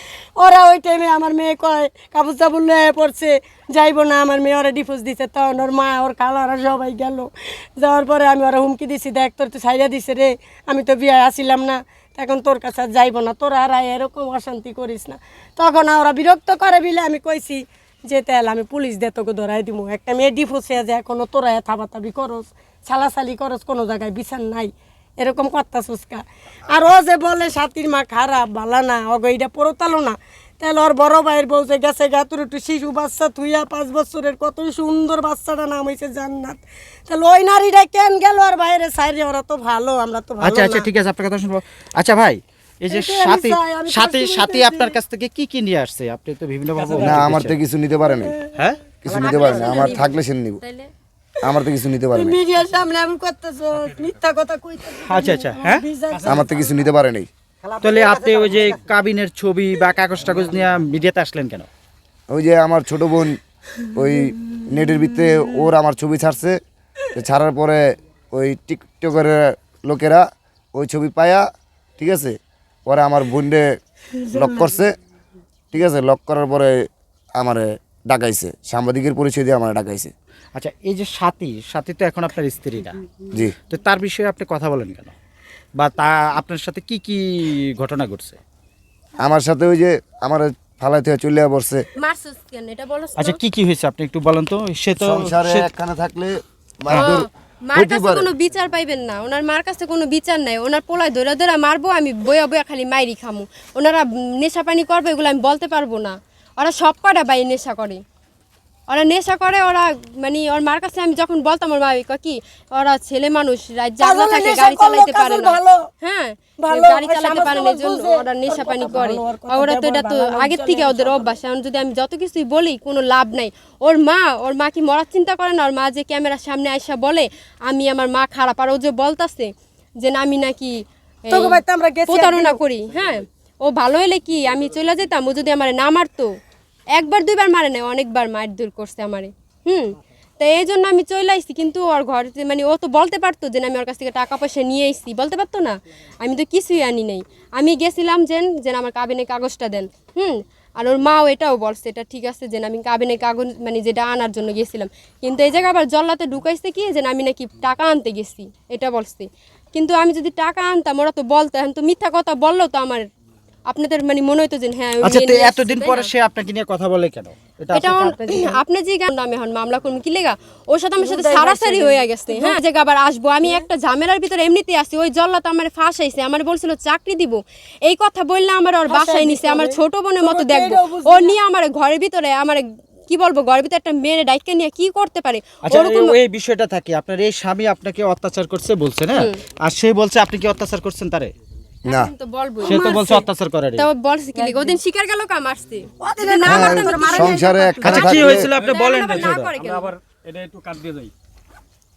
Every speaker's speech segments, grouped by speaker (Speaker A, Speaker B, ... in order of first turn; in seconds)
Speaker A: 0.4-40.9, 42.9-45.0, 49.3-49.9, 52.1-56.5, 57.6-58.7, 114.0-115.9, 116.6-121.3, 131.3-132.6, 168.2-168.6, 171.0-172.6, 178.9-181.3, 192.7-193.0, 194.3-194.8, 196.0-198.4
Speaker B: 40.4-47.6, 48.5-49.0, 55.0-56.4, 57.8-61.7, 80.5-83.0, 83.6-85.1, 85.8-88.4, 93.2-95.7, 96.9-97.2, 165.0-168.2, 185.6-191.3, 192.6-193.8, 197.8-199.5
Speaker C: 47.0-48.4, 49.0-50.6, 51.4-52.4, 56.2-57.3, 62.3-63.4, 63.9-66.6, 67.1-71.5, 72.0-73.8, 74.3-74.9, 75.7-76.8, 77.4-80.1, 89.2-91.8, 95.0-98.3, 196.4-198.5
Speaker D: 49.2-50.9, 92.0-93.4, 96.9-108.0, 108.9-129.5, 130.0-136.3, 136.9-163.0, 163.7-166.1, 167.7-186.2, 191.8-199.9
Speaker E: 198.4-201.1